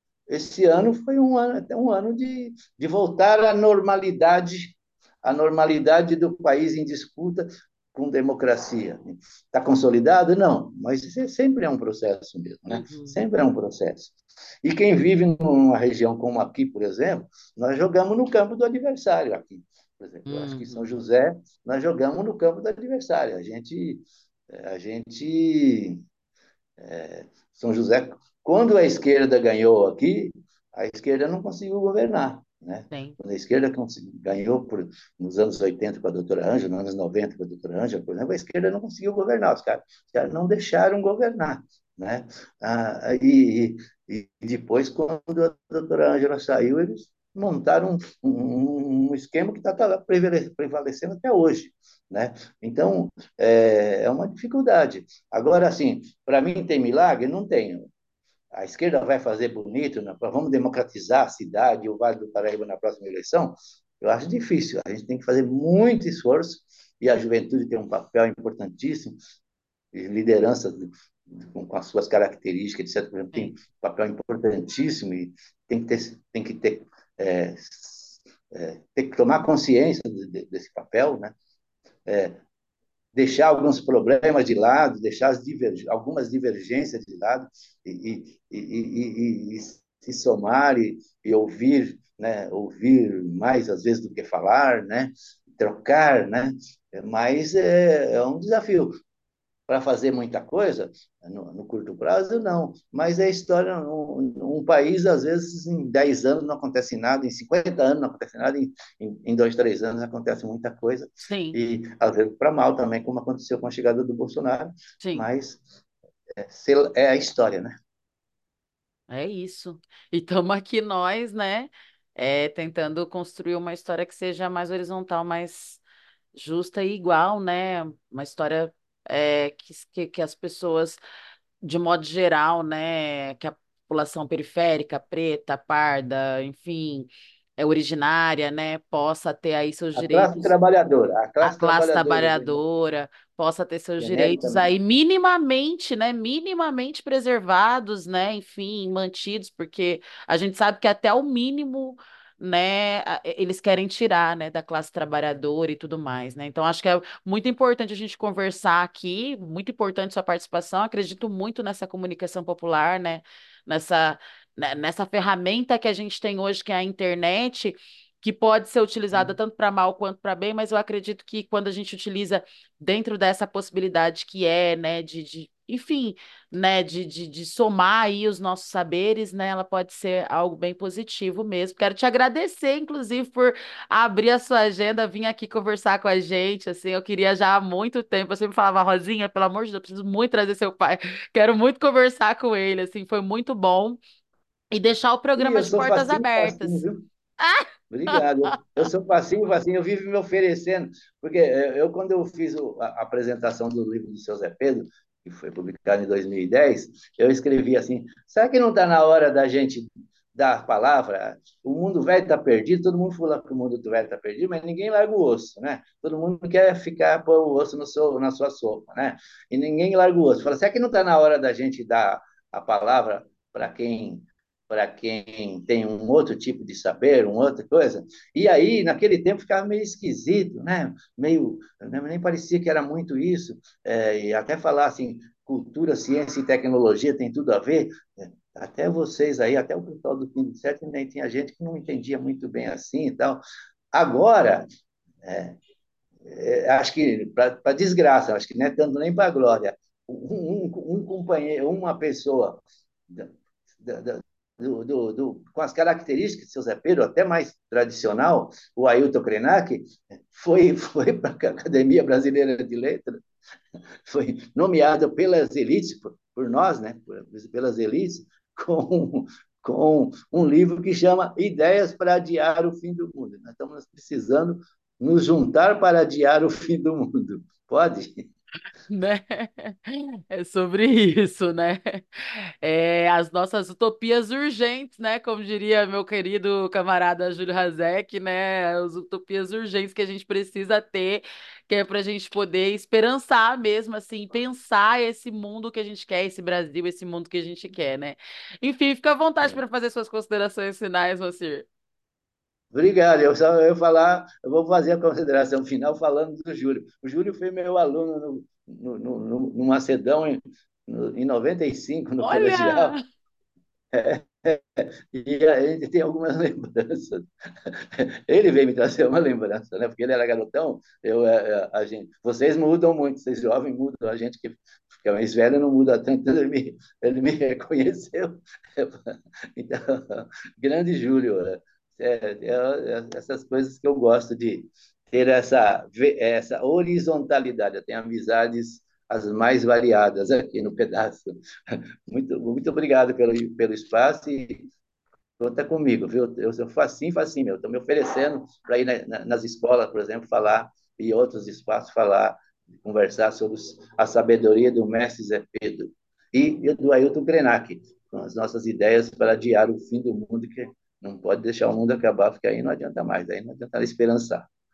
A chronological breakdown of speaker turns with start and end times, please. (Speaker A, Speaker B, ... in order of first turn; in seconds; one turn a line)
Speaker A: 0.3-26.0
Speaker B: 12.7-13.2
Speaker B: 20.2-20.9
Speaker A: 26.8-57.9
Speaker B: 32.9-33.1
Speaker A: 58.5-69.2
Speaker A: 69.9-81.3
Speaker A: 82.0-82.4
Speaker A: 83.1-99.0
Speaker A: 99.7-115.6
Speaker B: 111.2-111.6
Speaker B: 115.0-115.2
Speaker A: 116.4-117.7
Speaker B: 119.1-125.8
Speaker B: 126.3-131.0
Speaker B: 131.6-140.5
Speaker A: 139.9-142.6
Speaker B: 141.4-194.0
Speaker A: 144.0-144.7
Speaker B: 194.7-196.8
Speaker A: 195.4-197.0
Speaker B: 197.4-198.5
Speaker A: 197.9-243.4
Speaker A: 243.9-244.7
Speaker A: 245.2-245.6
Speaker A: 246.2-263.2
Speaker A: 264.1-278.3
Speaker B: 278.9-301.6
Speaker A: 302.7-312.9
Speaker B: 312.2-313.0
Speaker A: 313.9-344.6
Speaker A: 345.4-364.5